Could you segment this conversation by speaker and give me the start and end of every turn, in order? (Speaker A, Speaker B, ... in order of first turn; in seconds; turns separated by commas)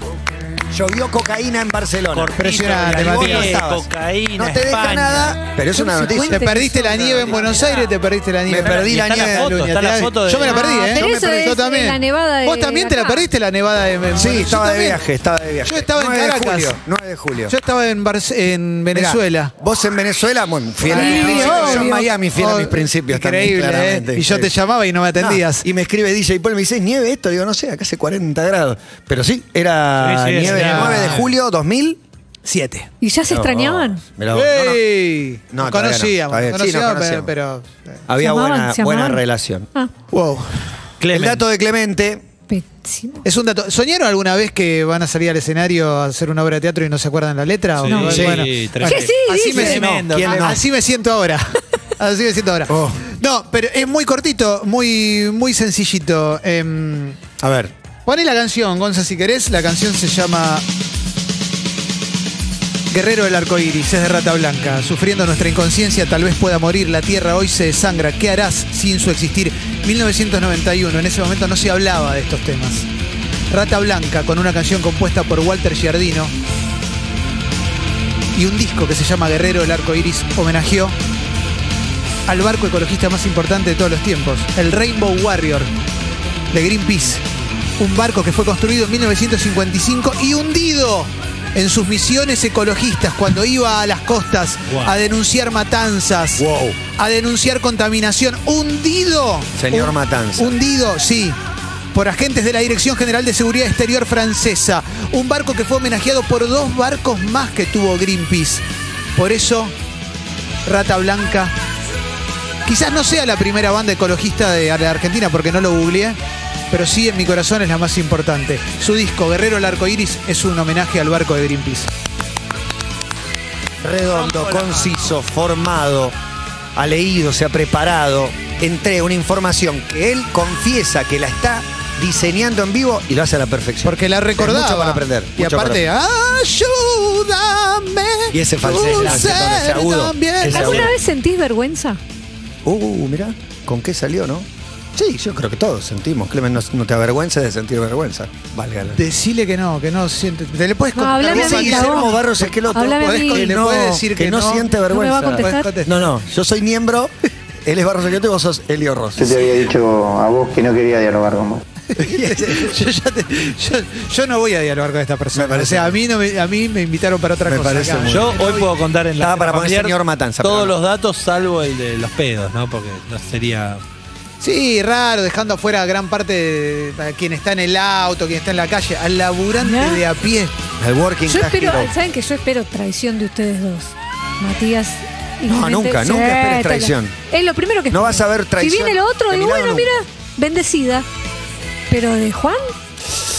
Speaker A: 0.7-7.4, Speaker B: 2.1-5.4, Speaker C: 2.4-3.6, Speaker D: 5.7-7.8, Speaker C: 6.1-15.0, Speaker A: 8.5-9.5, Speaker B: 8.6-11.0, Speaker D: 10.5-13.2, Speaker A: 14.1-17.6, Speaker C: 15.6-16.8, Speaker C: 17.5-19.5, Speaker A: 18.9-24.5, Speaker C: 20.9-25.6, Speaker D: 20.9-22.0, Speaker A: 25.1-32.0, Speaker B: 30.0-31.3, Speaker C: 30.3-31.2, Speaker C: 32.4-32.9, Speaker D: 33.0-34.0, Speaker A: 33.3-34.8, Speaker C: 34.3-38.0, Speaker A: 35.5-37.3, Speaker A: 38.1-39.7, Speaker D: 38.2-39.2, Speaker C: 40.1-40.6, Speaker B: 41.0-41.4, Speaker A: 41.1-42.2, Speaker D: 42.5-43.2, Speaker C: 43.2-57.2, Speaker B: 47.8-50.5, Speaker A: 47.9-48.5, Speaker D: 48.8-49.8, Speaker A: 49.5-50.6, Speaker A: 52.7-53.0, Speaker A: 57.4-57.7, Speaker C: 58.0-60.6, Speaker C: 62.9-72.8, Speaker C: 73.5-76.3, Speaker C: 78.3-80.9, Speaker C: 82.3-85.7, Speaker C: 86.5-87.2, Speaker C: 87.8-96.4, Speaker B: 94.7-94.9, Speaker A: 96.4-96.8, Speaker C: 97.0-101.3, Speaker A: 99.5-100.6, Speaker C: 101.9-108.6, Speaker C: 109.1-109.7, Speaker C: 110.6-111.5, Speaker C: 112.7-116.2, Speaker C: 116.7-121.9, Speaker A: 123.8-126.1, Speaker A: 126.7-135.9, Speaker C: 133.8-140.9, Speaker A: 138.3-140.9, Speaker D: 138.9-139.2, Speaker D: 140.4-142.0, Speaker A: 142.6-149.0, Speaker C: 148.9-155.9, Speaker D: 150.9-152.1, Speaker A: 151.2-157.1, Speaker D: 152.7-153.6, Speaker D: 154.9-155.7, Speaker A: 157.6-159.4, Speaker E: 159.2-161.6, Speaker C: 161.9-168.4, Speaker A: 162.0-162.8, Speaker A: 165.3-166.0, Speaker A: 167.4-168.7, Speaker B: 168.1-173.8, Speaker A: 169.2-170.7, Speaker C: 174.4-180.5, Speaker D: 179.6-180.0, Speaker A: 180.8-181.9, Speaker D: 181.3-191.1, Speaker A: 185.4-187.1, Speaker A: 187.9-189.9, Speaker D: 191.9-192.7